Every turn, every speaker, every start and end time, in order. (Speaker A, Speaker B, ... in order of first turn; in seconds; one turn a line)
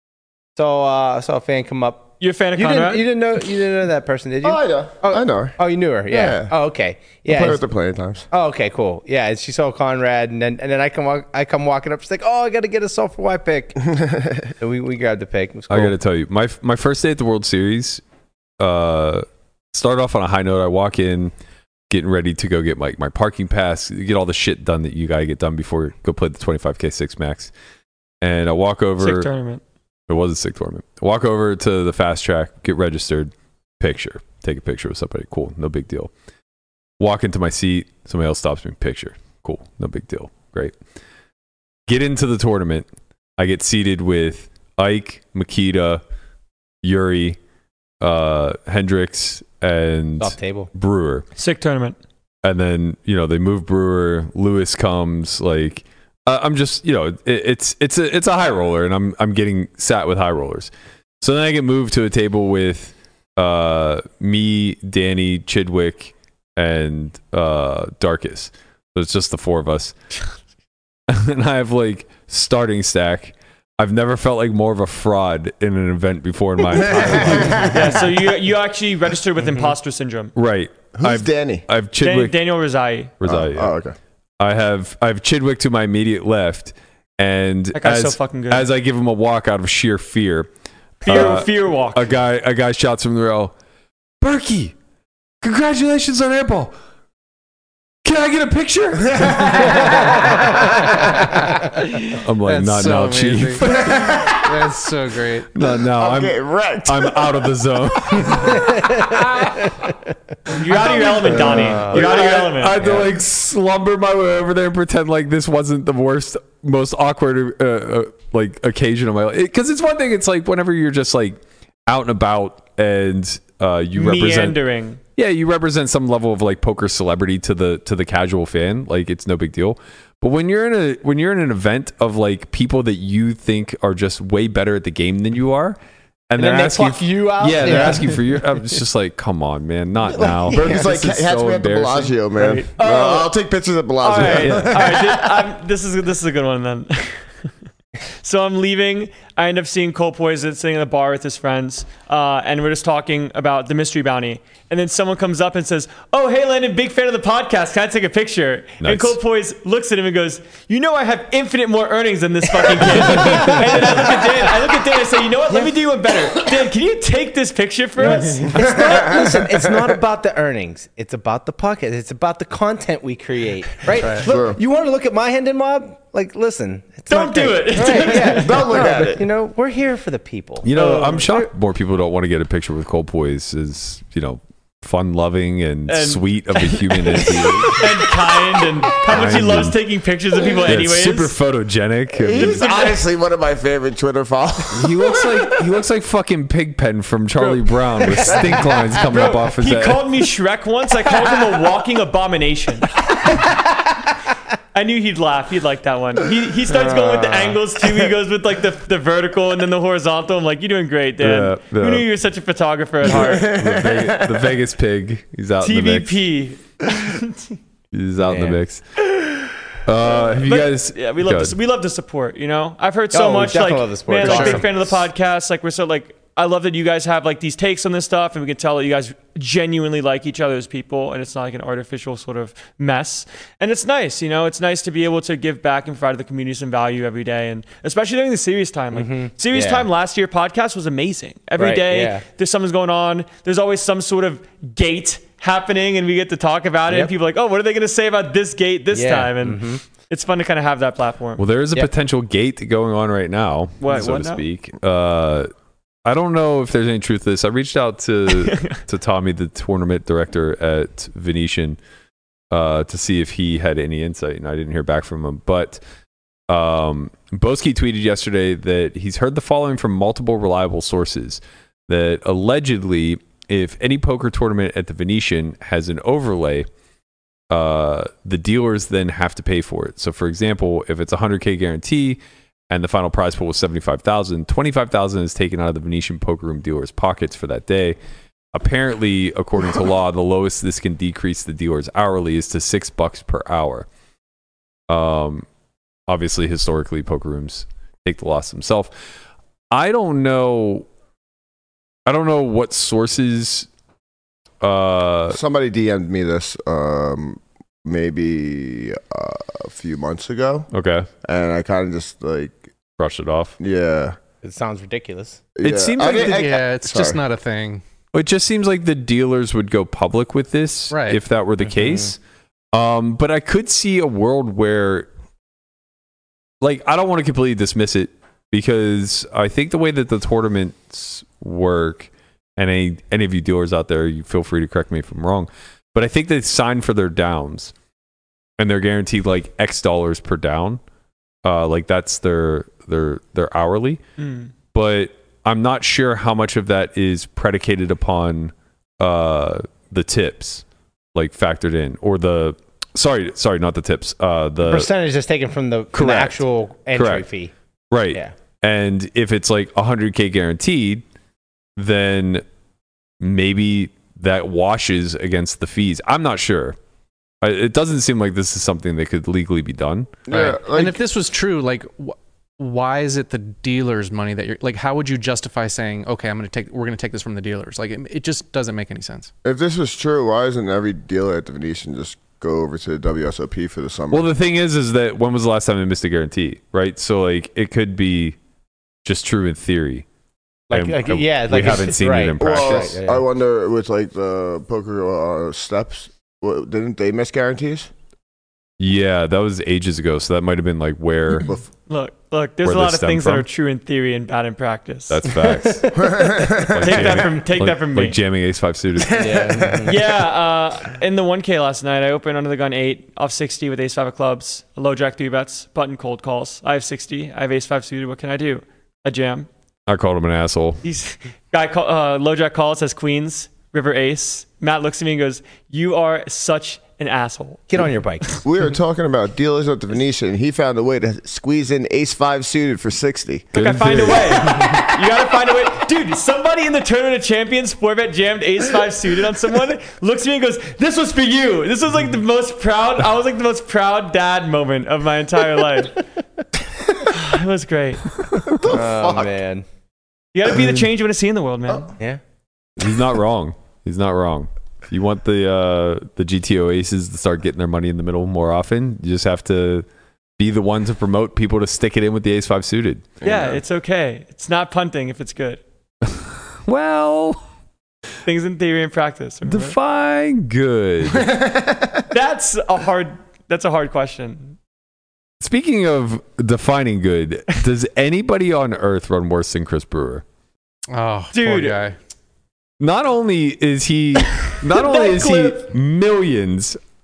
Speaker A: 0.6-7.6
Speaker B: 2.2-3.1
Speaker C: 4.4-5.6
Speaker C: 6.1-6.5
Speaker C: 7.3-8.3
Speaker A: 8.3-13.8
Speaker C: 14.0-14.5
Speaker A: 14.6-16.0
Speaker D: 15.7-18.0
Speaker D: 18.6-21.3
Speaker D: 21.9-27.5
Speaker D: 28.2-29.3
Speaker B: 29.0-29.6
Speaker D: 30.1-36.1
Speaker D: 37.0-40.7
Speaker D: 41.9-42.9
Speaker D: 43.4-46.0
Speaker D: 46.8-47.4
Speaker D: 48.0-51.2
Speaker A: 50.2-50.7
Speaker B: 51.4-52.0
Speaker D: 52.4-60.7
Speaker D: 61.2-70.0
Speaker D: 71.1-77.8
Speaker C: 76.7-78.0
Speaker B: 77.6-80.3
Speaker D: 80.3-82.4
Speaker C: 81.0-81.6
Speaker B: 82.0-83.1
Speaker D: 83.2-83.7
Speaker C: 83.2-84.0
Speaker D: 84.4-90.5
Speaker B: 87.8-88.7
Speaker B: 91.0-92.1
Speaker D: 91.0-93.5
Speaker D: 94.2-94.8
Speaker D: 95.4-96.7
Speaker D: 98.0-100.3
Speaker C: 99.1-100.7
Speaker E: 102.0-103.7
Speaker D: 102.2-104.2
Speaker C: 103.6-104.7
Speaker E: 104.3-105.5
Speaker D: 105.5-108.7
Speaker C: 105.6-107.5
Speaker C: 108.1-109.5
Speaker A: 108.3-109.7
Speaker B: 110.5-112.8
Speaker D: 111.2-124.6
Speaker C: 111.3-111.8
Speaker A: 111.3-112.2
Speaker A: 112.8-113.1
Speaker B: 124.0-125.0
Speaker D: 125.2-135.8
Speaker D: 136.3-142.2
Speaker A: 136.4-138.4
Speaker A: 140.0-140.9
Speaker C: 140.5-145.4
Speaker A: 142.4-142.7
Speaker B: 142.8-143.3
Speaker B: 144.0-147.3
Speaker D: 144.2-144.8
Speaker B: 148.2-169.2
Speaker D: 158.8-159.2
Speaker A: 163.0-164.2
Speaker A: 165.5-165.8
Speaker A: 168.0-180.7
Speaker C: 168.5-169.9
Speaker E: 174.0-174.3
Speaker C: 174.3-174.6
Speaker B: 177.1-178.8
Speaker C: 177.9-179.2
Speaker D: 180.6-187.8
Speaker B: 180.7-181.5
Speaker B: 185.9-191.3
Speaker D: 189.1-189.8
Speaker D: 190.7-192.7
Speaker C: 192.1-195.5
Speaker B: 192.4-193.0
Speaker D: 194.7-200.0
Speaker C: 198.2-198.8
Speaker B: 199.1-203.0
Speaker B: 204.7-213.5
Speaker C: 206.8-207.6
Speaker D: 211.2-212.1
Speaker C: 213.0-214.5
Speaker D: 213.1-216.2
Speaker B: 215.6-217.5
Speaker D: 217.9-218.8
Speaker A: 218.2-218.6
Speaker D: 219.8-221.6
Speaker B: 220.4-251.4
Speaker A: 223.1-224.9
Speaker E: 224.2-224.6
Speaker A: 238.9-239.9
Speaker A: 241.6-242.2
Speaker A: 246.9-247.1
Speaker A: 248.9-249.8
Speaker D: 251.4-255.5
Speaker B: 253.8-254.4
Speaker D: 256.1-261.8
Speaker B: 258.3-258.8
Speaker D: 262.5-265.8
Speaker D: 266.5-276.7
Speaker D: 277.5-282.2
Speaker D: 282.7-288.0
Speaker D: 288.5-293.9
Speaker D: 294.9-295.5
Speaker D: 296.1-298.9
Speaker D: 299.7-300.9
Speaker D: 302.1-303.7
Speaker D: 304.6-305.4
Speaker C: 305.3-310.7
Speaker D: 310.7-311.1
Speaker C: 311.2-312.7
Speaker D: 313.0-313.6
Speaker C: 313.6-314.2
Speaker A: 314.4-315.4
Speaker C: 315.6-317.2
Speaker D: 315.6-316.4
Speaker E: 316.2-317.8
Speaker D: 318.1-322.2
Speaker E: 320.9-321.2
Speaker A: 321.6-322.1
Speaker D: 322.7-325.1
Speaker D: 326.6-337.7
Speaker D: 338.6-340.8
Speaker D: 341.4-344.0
Speaker B: 344.2-344.5
Speaker D: 344.7-350.6
Speaker D: 351.1-354.9
Speaker A: 354.6-357.5
Speaker D: 355.9-356.4
Speaker D: 356.9-357.2
Speaker D: 357.9-361.0
Speaker D: 361.8-362.4
Speaker D: 363.2-366.8
Speaker D: 367.4-370.2
Speaker C: 370.3-371.0
Speaker E: 370.3-379.3
Speaker C: 379.4-384.3
Speaker D: 384.1-388.4
Speaker D: 389.0-390.1
Speaker A: 390.7-393.3
Speaker D: 390.7-392.9
Speaker C: 392.4-397.9
Speaker D: 398.8-401.5
Speaker B: 401.9-405.2
Speaker D: 402.6-403.5
Speaker D: 405.1-405.9
Speaker C: 405.9-407.2
Speaker D: 406.6-409.5
Speaker B: 406.8-408.2
Speaker C: 409.0-409.9
Speaker A: 409.2-410.0
Speaker B: 409.9-419.5
Speaker D: 419.9-420.8
Speaker B: 420.8-427.7
Speaker A: 427.7-428.3
Speaker C: 428.4-433.5
Speaker D: 433.5-434.8
Speaker B: 433.5-446.0
Speaker B: 447.1-448.0
Speaker C: 448.5-449.4
Speaker A: 448.6-449.6
Speaker B: 450.3-451.9
Speaker D: 452.8-459.9
Speaker D: 460.4-463.1
Speaker C: 463.2-463.6
Speaker B: 463.2-465.6
Speaker D: 466.1-467.4
Speaker B: 468.2-469.8
Speaker D: 469.5-471.3
Speaker C: 471.1-472.0
Speaker B: 472.1-474.6
Speaker D: 475.4-480.2
Speaker E: 480.9-482.0
Speaker B: 481.3-481.8
Speaker D: 482.8-486.8
Speaker B: 484.7-485.7